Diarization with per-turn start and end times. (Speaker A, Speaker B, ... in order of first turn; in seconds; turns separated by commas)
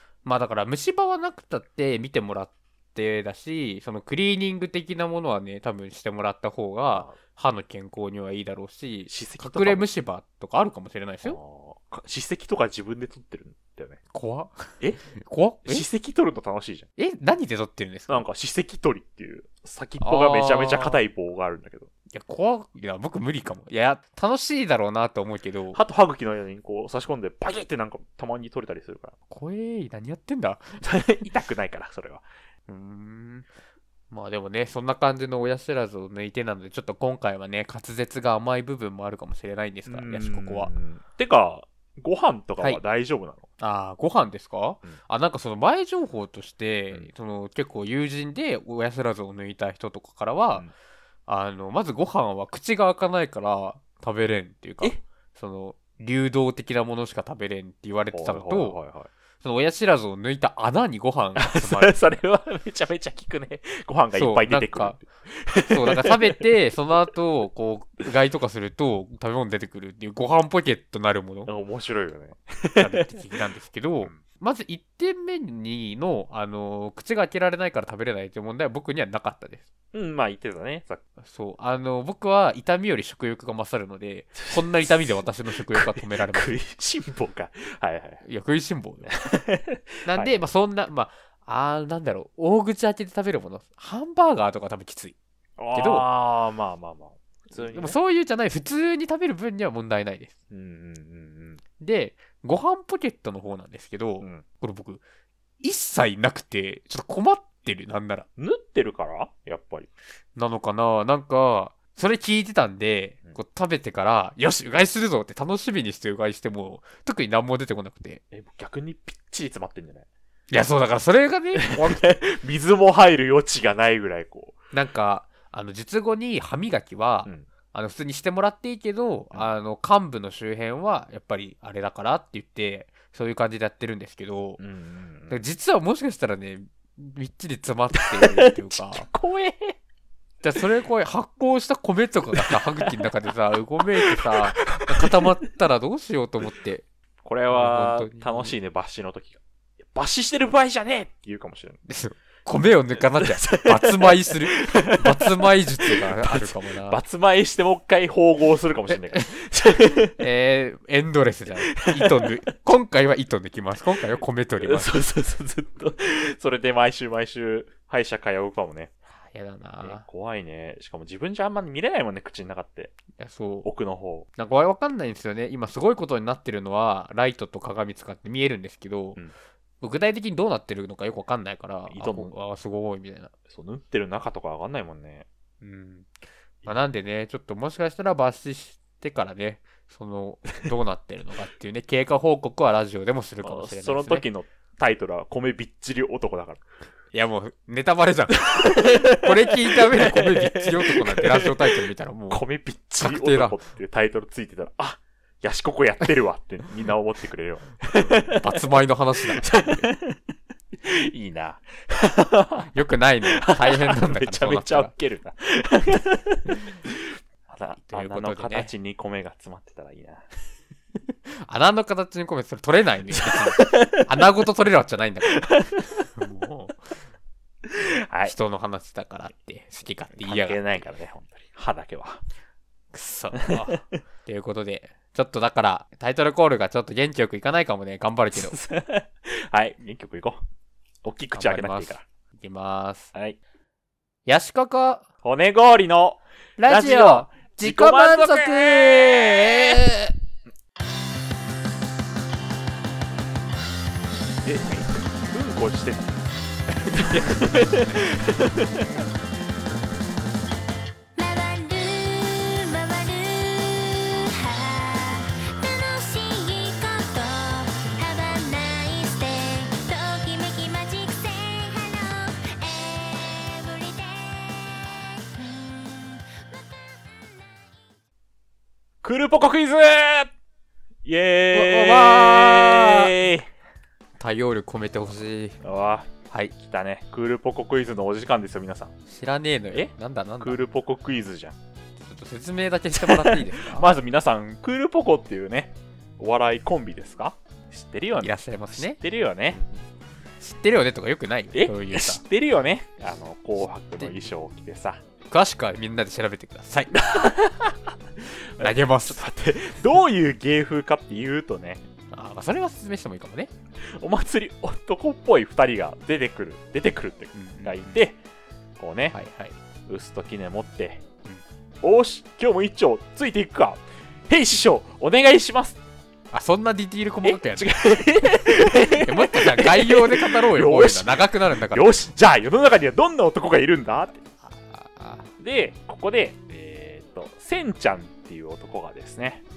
Speaker A: 0.2-11.4, Speaker B: 6.9-7.2, Speaker B: 9.1-9.9, Speaker B: 11.2-14.0, Speaker A: 14.1-15.8, Speaker B: 15.6-16.9, Speaker A: 17.0-18.2, Speaker B: 18.1-21.9, Speaker A: 20.0-21.0, Speaker A: 22.1-25.8, Speaker B: 25.7-29.1, Speaker A: 29.3-30.7, Speaker B: 30.8-32.2, Speaker A: 32.7-33.5, Speaker A: 34.1-40.7, Speaker B: 39.9-43.5, Speaker A: 43.6-50.7, Speaker A: 51.3-58.8, Speaker B: 58.1-59.1, Speaker A: 59.4-61.9, Speaker B: 61.4-66.4, Speaker A: 64.1-65.0, Speaker A: 65.7-71.5, Speaker B: 71.5-73.1, Speaker A: 72.8-79.6, Speaker B: 79.9-81.0, Speaker A: 81.2-86.5, Speaker B: 84.3-88.2, Speaker A: 88.2-89.1, Speaker B: 89.0-90.4, Speaker A: 90.0-95.2, Speaker B: 95.6-98.0, Speaker A: 95.7-96.1, Speaker A: 97.7-100.3, Speaker B: 100.5-101.6, Speaker A: 101.8-105.0, Speaker A: 105.6-108.3, Speaker B: 108.4-109.9, Speaker A: 110.3-118.2, Speaker B: 118.3-120.1, Speaker A: 120.5-122.1, Speaker B: 121.5-124.6, Speaker A: 124.7-134.6, Speaker B: 134.6-135.4, Speaker A: 135.3-139.1, Speaker B: 137.9-139.8, Speaker A: 140.4-146.8, Speaker B: 142.3-142.9, Speaker B: 143.8-145.2, Speaker B: 147.2-151.8, Speaker A: 147.5-148.5, Speaker A: 151.9-157.0, Speaker B: 153.2-160.2, Speaker A: 158.9-159.2, Speaker A: 160.2-164.9, Speaker B: 161.7-162.3, Speaker B: 164.6-168.9, Speaker A: 169.2-170.0, Speaker B: 169.8-172.9, Speaker A: 173.2-173.7, Speaker B: 173.6-174.3, Speaker A: 174.4-179.2, Speaker A: 179.8-183.3, Speaker B: 181.9-182.3, Speaker B: 183.5-185.3, Speaker A: 185.6-186.1, Speaker A: 186.6-194.2, Speaker B: 193.4-196.6, Speaker A: 197.1-202.4, Speaker B: 198.4-210.2, Speaker A: 203.0-203.6, Speaker A: 207.9-209.9, Speaker B: 210.8-212.7, Speaker A: 212.7-214.9, Speaker B: 213.2-220.2, Speaker A: 217.8-218.7, Speaker A: 221.3-225.4, Speaker B: 223.1-224.1, Speaker B: 225.3-226.0, Speaker A: 226.1-226.9, Speaker B: 227.7-228.3, Speaker A: 228.2-230.6, Speaker B: 230.2-232.2, Speaker A: 232.9-238.6, Speaker B: 233.3-234.0, Speaker B: 238.3-240.4, Speaker B: 241.0-242.0, Speaker A: 241.3-243.1, Speaker A: 244.2-245.0, Speaker B: 245.2-249.8, Speaker A: 246.6-250.1, Speaker B: 254.4-256.1, Speaker B: 256.9-258.9, Speaker A: 257.0-258.2, Speaker C: 261.1-276.4, Speaker B: 279.0-280.3, Speaker B: 281.0-283.5, Speaker A: 281.5-283.1, Speaker A: 284.2-285.6, Speaker B: 285.6-288.9, Speaker A: 289.1-290.6, Speaker B: 289.7-291.6, Speaker A: 292.0-293.9, Speaker B: 292.9-299.6, Speaker A: 298.2-299.0, Speaker A: 300.4-302.2, Speaker B: 301.5-305.0, Speaker A: 305.3-307.0, Speaker B: 306.9-307.9, Speaker B: 308.6-311.8, Speaker A: 308.6-309.2, Speaker A: 312.1-313.5, Speaker B: 313.8-318.2, Speaker A: 317.3-318.0, Speaker B: 318.8-319.1, Speaker A: 319.1-319.6, Speaker B: 319.9-321.1, Speaker B: 321.8-325.8, Speaker A: 326.3-327.7, Speaker B: 327.2-334.2, Speaker A: 328.4-331.9, Speaker A: 334.4-335.3, Speaker B: 335.4-339.4